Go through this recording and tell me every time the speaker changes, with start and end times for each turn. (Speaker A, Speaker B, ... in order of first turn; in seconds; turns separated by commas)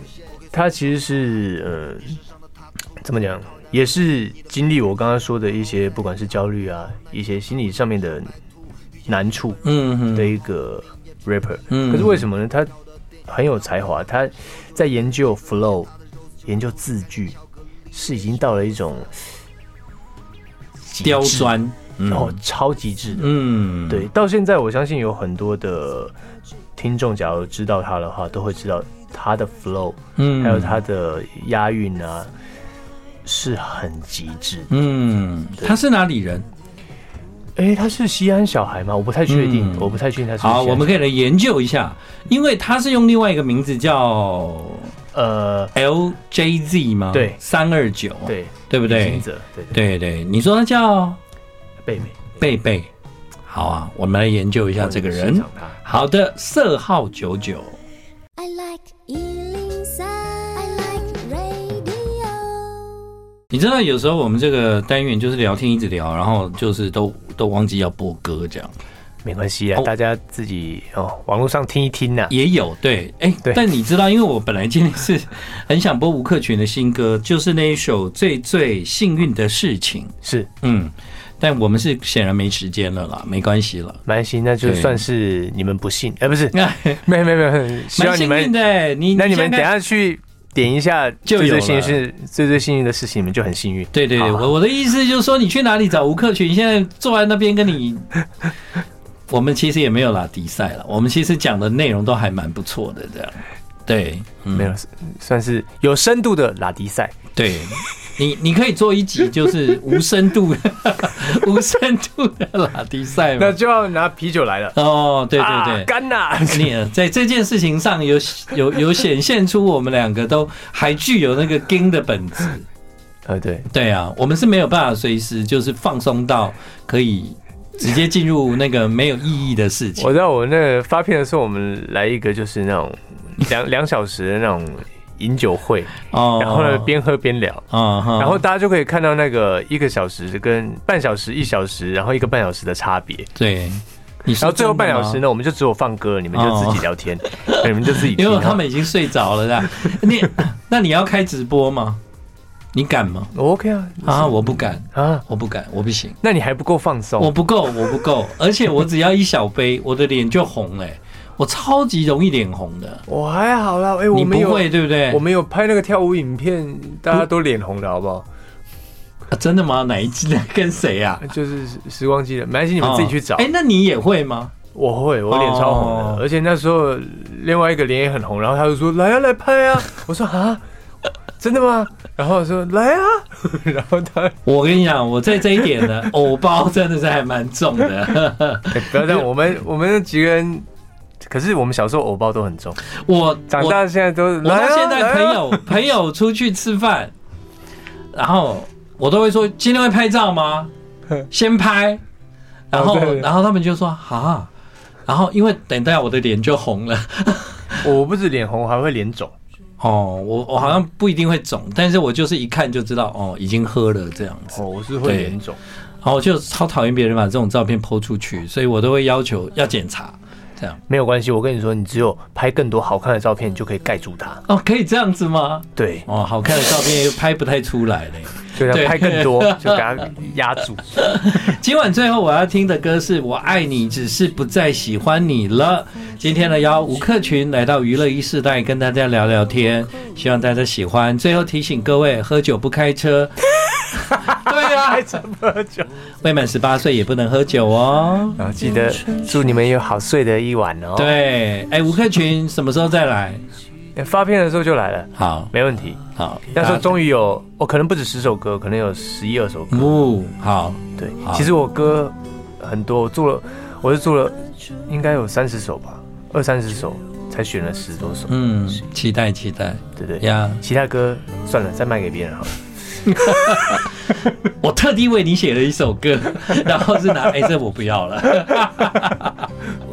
Speaker A: 0.5-2.2, Speaker A: 3.0-8.3, Speaker A: 9.1-12.7, Speaker B: 9.6-10.3, Speaker B: 11.7-12.2, Speaker A: 13.3-15.9, Speaker A: 16.4-17.4, Speaker A: 17.9-19.1, Speaker A: 20.8-21.6, Speaker B: 21.0-22.4, Speaker A: 22.1-26.1, Speaker B: 23.2-24.1, Speaker A: 26.8-32.3, Speaker B: 30.2-30.8, Speaker A: 33.2-34.7, Speaker B: 34.7-36.5, Speaker A: 37.6-41.0, Speaker B: 39.3-44.9, Speaker A: 45.1-45.7, Speaker B: 45.8-51.2, Speaker A: 47.1-47.4, Speaker A: 48.3-49.8, Speaker A: 51.8-52.2, Speaker B: 52.4-52.9, Speaker B: 53.5-57.8, Speaker A: 54.8-55.8, Speaker C: 58.4-63.1, Speaker B: 63.5-68.7, Speaker A: 69.2-72.3, Speaker B: 72.3-84.0, Speaker A: 80.2-80.5, Speaker A: 84.1-88.5, Speaker B: 84.6-85.0, Speaker B: 86.5-87.0, Speaker B: 87.9-89.7, Speaker A: 89.1-94.5, Speaker B: 91.3-92.0, Speaker B: 93.9-98.1, Speaker B: 99.3-104.7, Speaker A: 104.5-107.2, Speaker B: 107.3-113.6, Speaker A: 113.4-114.8, Speaker B: 114.8-115.9, Speaker A: 115.3-116.8, Speaker B: 116.5-122.7, Speaker A: 123.3-123.7, Speaker B: 123.7-130.1, Speaker A: 130.0-137.7, Speaker B: 136.1-136.9, Speaker B: 137.7-138.4, Speaker A: 138.2-143.3, Speaker B: 143.4-145.2, Speaker A: 144.4-148.6, Speaker B: 146.3-152.0, Speaker B: 152.7-153.3, Speaker A: 153.3-155.2, Speaker B: 154.0-156.2, Speaker A: 156.2-157.3, Speaker B: 157.2-163.0, Speaker A: 163.1-168.3, Speaker B: 164.1-165.2, Speaker B: 169.3-171.3, Speaker A: 171.2-173.5, Speaker B: 172.8-174.5, Speaker A: 174.7-180.6, Speaker B: 175.3-176.2, Speaker A: 181.4-184.4, Speaker B: 184.4-189.2, Speaker A: 188.7-190.7, Speaker A: 191.2-192.8, Speaker B: 192.9-193.8, Speaker A: 193.5-195.7, Speaker B: 194.4-197.1, Speaker B: 198.1-200.7, Speaker B: 201.3-202.0, Speaker B: 202.7-204.5, Speaker A: 202.7-203.3, Speaker B: 205.1-207.9, Speaker A: 207.8-209.3, Speaker B: 209.8-215.4, Speaker A: 214.5-215.6, Speaker B: 216.0-220.8, Speaker A: 220.9-224.4, Speaker B: 224.5-230.0, Speaker A: 225.8-226.1, Speaker A: 228.6-231.4, Speaker B: 230.9-243.4, Speaker B: 244.0-245.2, Speaker A: 244.1-245.9, Speaker B: 246.2-248.4, Speaker A: 248.4-251.2, Speaker B: 251.0-253.4, Speaker A: 253.9-256.0, Speaker B: 255.2-255.5, Speaker B: 256.1-256.9, Speaker A: 256.5-260.0, Speaker B: 259.7-261.5, Speaker A: 261.0-268.3, Speaker B: 268.3-270.6, Speaker A: 269.9-273.8, Speaker B: 273.1-279.5, Speaker A: 278.5-279.1